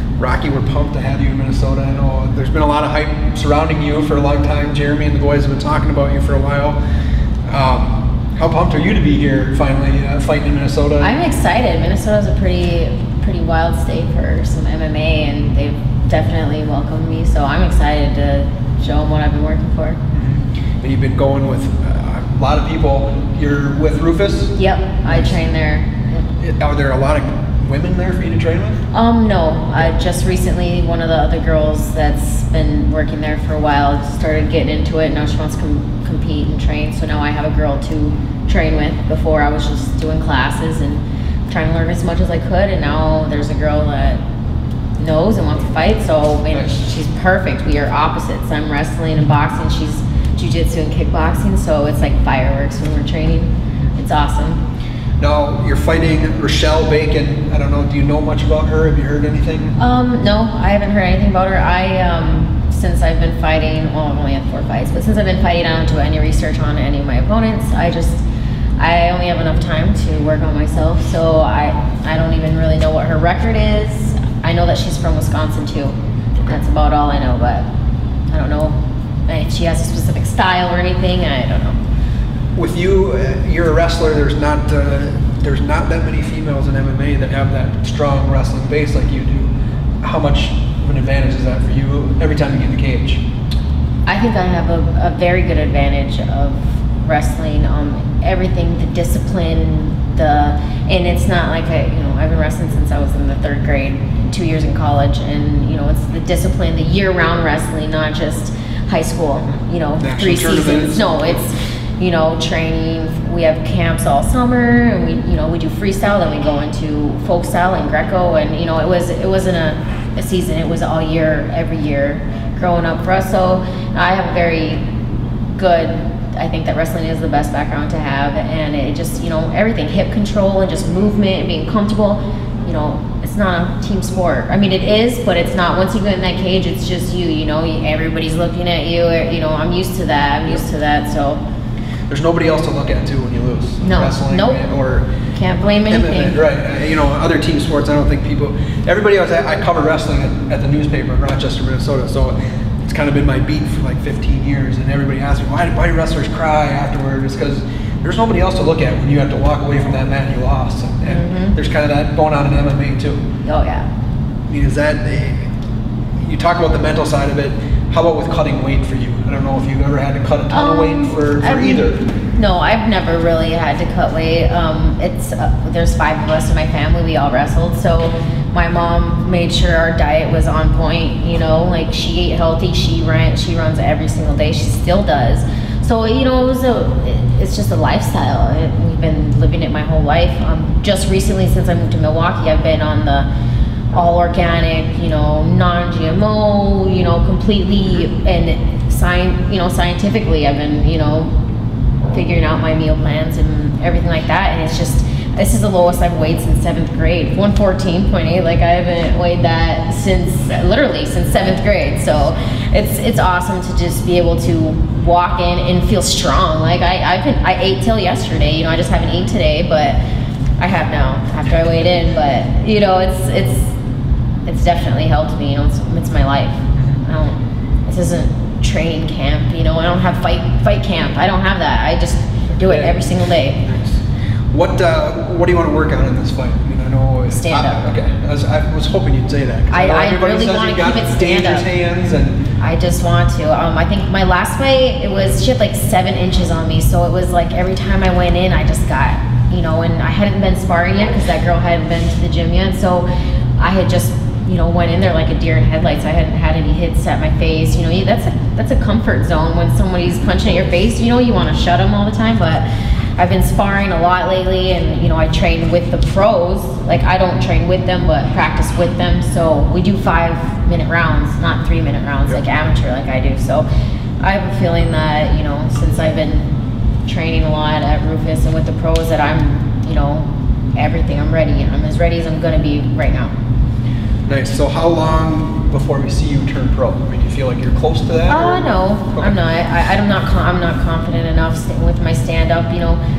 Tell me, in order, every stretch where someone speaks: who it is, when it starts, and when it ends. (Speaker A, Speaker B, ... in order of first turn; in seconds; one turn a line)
Speaker A: 0.2-6.8
Speaker A: 7.5-11.2
Speaker B: 11.0-20.0
Speaker A: 20.1-24.6
Speaker B: 24.6-26.2
Speaker A: 25.1-25.4
Speaker A: 26.4-28.8
Speaker B: 28.9-44.2
Speaker B: 45.0-54.6
Speaker A: 55.2-59.8
Speaker B: 59.8-68.2
Speaker B: 68.8-77.7
Speaker B: 78.3-78.8
Speaker B: 79.3-81.8
Speaker A: 82.5-89.5
Speaker A: 90.0-93.2
Speaker B: 94.1-124.8
Speaker A: 110.0-111.4
Speaker B: 125.6-141.4
Speaker A: 142.1-145.1
Speaker B: 143.8-144.6
Speaker B: 145.3-146.4
Speaker A: 145.9-163.2
Speaker B: 161.1-161.6
Speaker B: 163.4-163.9
Speaker A: 164.5-165.5
Speaker A: 166.2-172.0
Speaker B: 170.5-193.3
Speaker B: 193.9-201.4
Speaker B: 202.1-220.0
Speaker B: 220.6-223.7
Speaker B: 224.5-233.6
Speaker A: 232.5-242.4
Speaker B: 237.3-237.9
Speaker B: 239.7-241.7
Speaker B: 242.6-253.1
Speaker B: 253.6-262.6
Speaker B: 263.2-273.7
Speaker B: 274.2-276.5
Speaker B: 277.1-283.3
Speaker A: 284.3-289.4
Speaker B: 288.3-293.0